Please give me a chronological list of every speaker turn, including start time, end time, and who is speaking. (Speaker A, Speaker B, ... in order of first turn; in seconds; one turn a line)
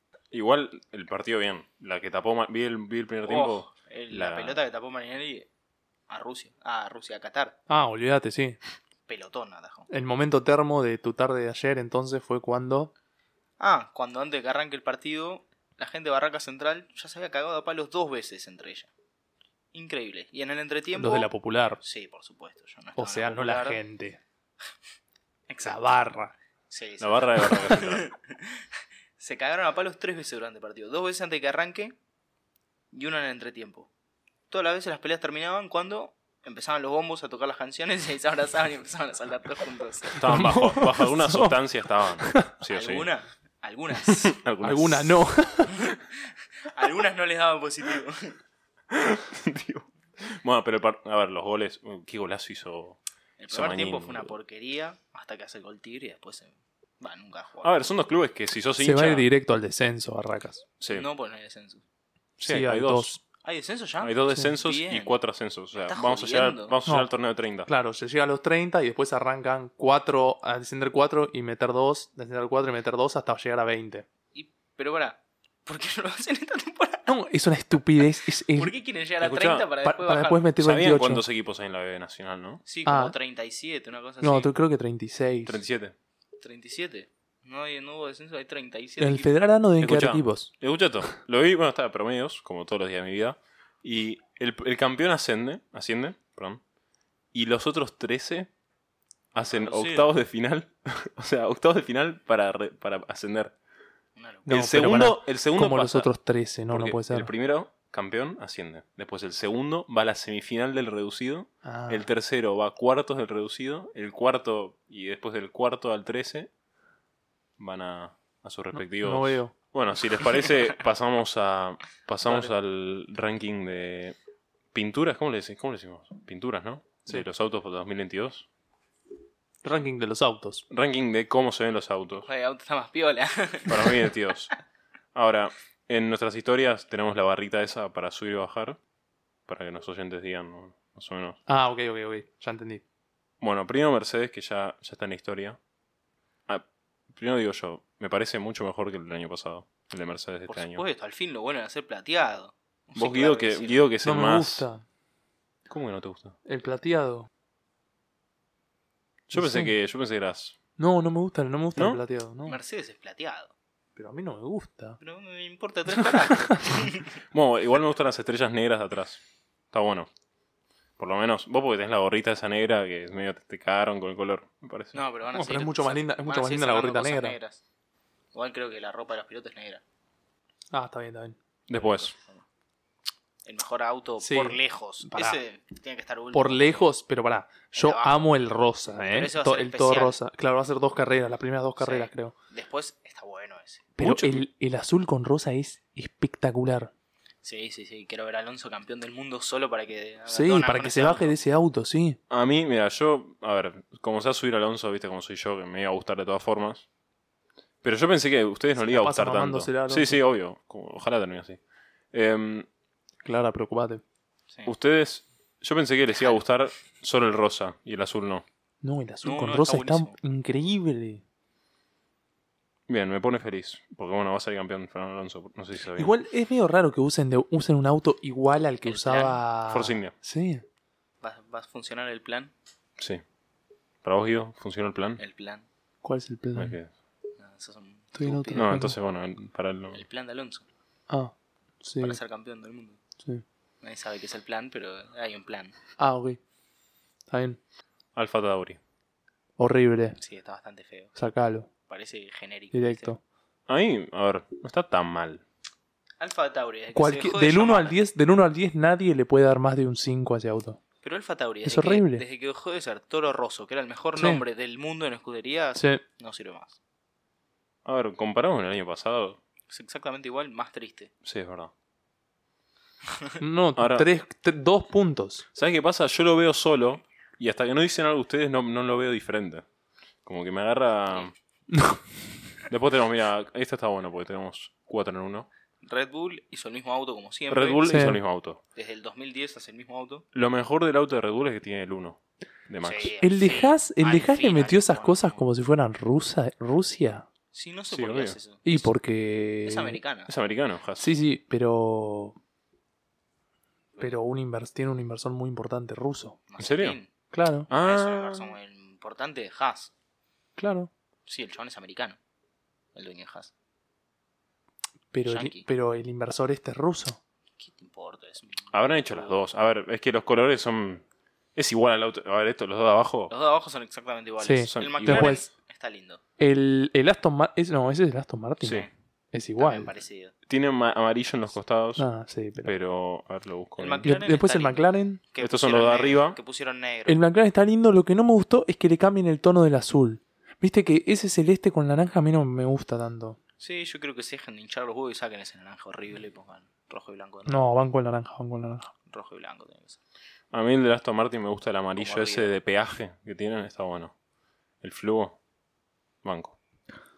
Speaker A: 0.3-4.6
Speaker B: 3.3-5.5
Speaker B: 6.1-7.6
Speaker C: 7.7-8.6
Speaker B: 9.1-9.9
Speaker C: 9.9-12.9
Speaker B: 13.6-18.9
Speaker B: 19.7-21.3
Speaker C: 20.9-21.8
Speaker B: 21.8-23.8
Speaker C: 22.9-24.2
Speaker B: 25.5-25.8
Speaker C: 25.6-26.3
Speaker B: 26.7-28.6
Speaker A: 27.0-28.1
Speaker B: 29.2-31.9
Speaker B: 32.9-33.9
Speaker B: 34.5-40.2
Speaker A: 40.2-43.1
Speaker C: 40.2-41.6
Speaker C: 42.2-42.5
Speaker B: 42.7-44.4
Speaker A: 44.1-45.2
Speaker C: 44.6-45.7
Speaker B: 45.7-48.4
Speaker A: 48.9-53.0
Speaker B: 53.4-57.8
Speaker A: 53.5-54.3
Speaker A: 57.6-59.3
Speaker C: 58.8-60.6
Speaker A: 60.8-61.1
Speaker B: 60.9-61.8
Speaker A: 62.4-63.2
Speaker C: 62.4-63.2
Speaker B: 63.4-65.2
Speaker A: 64.0-67.7
Speaker B: 65.7-66.8
Speaker C: 67.7-74.1
Speaker B: 74.3-77.1
Speaker C: 77.1-78.7
Speaker B: 78.5-80.5
Speaker A: 79.2-79.7
Speaker C: 79.8-81.2
Speaker A: 80.6-82.6
Speaker B: 82.7-84.5
Speaker C: 82.8-83.1
Speaker C: 84.2-85.6
Speaker A: 85.5-85.9
Speaker B: 86.4-89.3
Speaker C: 89.0-90.5
Speaker A: 89.8-96.6
Speaker A: 97.3-98.5
Speaker A: 99.3-103.5
Speaker B: 99.5-100.1
Speaker B: 104.2-104.5
Speaker C: 104.5-107.3
Speaker A: 104.5-106.1
Speaker A: 106.7-116.5
Speaker C: 111.6-112.1
Speaker A: 117.6-124.2
Speaker C: 118.8-119.5
Speaker A: 124.7-128.4
Speaker C: 129.6-130.6
Speaker A: 130.7-132.3
Speaker B: 132.2-134.1
Speaker A: 133.7-134.5
Speaker A: 135.1-138.8
Speaker A: 139.5-141.4
Speaker C: 141.5-142.8
Speaker A: 143.4-145.6
Speaker A: 146.5-150.8
Speaker B: 150.5-153.9
Speaker A: 152.9-154.7
Speaker C: 154.0-154.8
Speaker A: 155.7-156.3
Speaker C: 156.4-157.3
Speaker C: 159.3-159.7
Speaker A: 159.3-160.6
Speaker C: 160.8-162.6
Speaker A: 161.8-162.0
Speaker B: 162.4-163.5
Speaker C: 163.9-165.0
Speaker B: 165.0-167.1
Speaker A: 167.3-169.2
Speaker A: 169.7-170.1
Speaker A: 171.0-175.0
Speaker B: 174.9-177.6
Speaker C: 175.3-177.3
Speaker B: 178.3-179.8
Speaker C: 180.7-181.3
Speaker A: 181.7-182.1
Speaker B: 181.7-182.4
Speaker B: 183.4-186.9
Speaker C: 184.2-185.4
Speaker C: 186.3-192.3
Speaker B: 187.8-188.3
Speaker B: 189.1-190.2
Speaker B: 191.8-193.9
Speaker A: 194.0-194.4
Speaker C: 194.0-196.9
Speaker B: 197.4-201.3
Speaker C: 200.3-202.2
Speaker A: 202.3-206.8
Speaker A: 207.8-211.6
Speaker C: 208.8-210.2
Speaker A: 212.1-212.7
Speaker C: 213.2-214.0
Speaker A: 214.6-218.4
Speaker C: 218.8-221.2
Speaker B: 219.2-220.1
Speaker A: 222.9-226.1
Speaker C: 226.0-230.6
Speaker B: 228.8-229.4
Speaker A: 229.7-230.1
Speaker B: 231.2-232.5
Speaker A: 233.0-233.2
Speaker A: 234.0-235.2
Speaker B: 235.2-235.7
Speaker C: 236.0-236.7
Speaker A: 236.6-236.9
Speaker B: 237.4-238.8
Speaker C: 238.1-238.9
Speaker A: 238.5-240.0
Speaker B: 239.9-240.7
Speaker C: 241.1-242.2
Speaker B: 242.0-243.0
Speaker B: 243.8-245.7
Speaker C: 246.0-246.4
Speaker C: 247.3-247.6
Speaker A: 248.1-248.8
Speaker C: 249.6-250.2
Speaker B: 250.2-251.2
Speaker C: 251.2-251.7
Speaker B: 251.9-253.1
Speaker C: 252.7-253.2
Speaker A: 253.7-255.4
Speaker B: 256.2-258.0
Speaker C: 256.9-260.8
Speaker B: 261.0-266.8
Speaker C: 261.6-262.2
Speaker C: 264.2-264.4
Speaker C: 265.8-266.0
Speaker A: 267.8-269.4
Speaker B: 269.7-271.1
Speaker A: 271.2-271.7
Speaker C: 273.4-275.4
Speaker A: 273.8-274.1
Speaker A: 275.6-279.6
Speaker A: 280.2-281.3
Speaker C: 281.7-282.0
Speaker A: 282.7-285.5
Speaker B: 285.8-287.9
Speaker A: 287.5-288.6
Speaker C: 287.9-288.2
Speaker B: 288.7-290.2
Speaker A: 290.3-293.1
Speaker B: 292.8-295.4
Speaker C: 293.2-297.3
Speaker B: 297.5-298.9
Speaker A: 297.9-298.4
Speaker C: 298.6-300.0
Speaker B: 299.6-300.3
Speaker A: 300.3-301.1
Speaker C: 301.0-302.4
Speaker C: 304.0-306.4
Speaker B: 306.5-307.1
Speaker A: 306.6-307.0
Speaker C: 307.3-307.7
Speaker A: 307.7-308.6
Speaker B: 307.7-309.9
Speaker C: 310.6-310.9
Speaker B: 311.3-312.2
Speaker B: 312.9-313.5
Speaker C: 315.1-317.2
Speaker B: 315.2-315.7
Speaker B: 317.6-319.4
Speaker A: 318.7-321.0
Speaker A: 321.6-323.3
Speaker B: 323.3-326.2
Speaker C: 324.4-325.5
Speaker A: 324.7-325.4
Speaker C: 326.4-329.9
Speaker A: 328.6-328.9
Speaker B: 329.6-330.3
Speaker A: 330.5-332.1
Speaker C: 332.0-332.7
Speaker A: 332.6-334.1
Speaker B: 333.8-337.2
Speaker C: 334.0-335.2
Speaker A: 335.4-336.4
Speaker C: 337.1-343.4
Speaker B: 343.6-347.6
Speaker C: 347.5-348.9
Speaker B: 349.1-350.0
Speaker A: 350.5-354.1
Speaker B: 351.9-352.5
Speaker A: 354.8-355.4
Speaker A: 356.2-356.6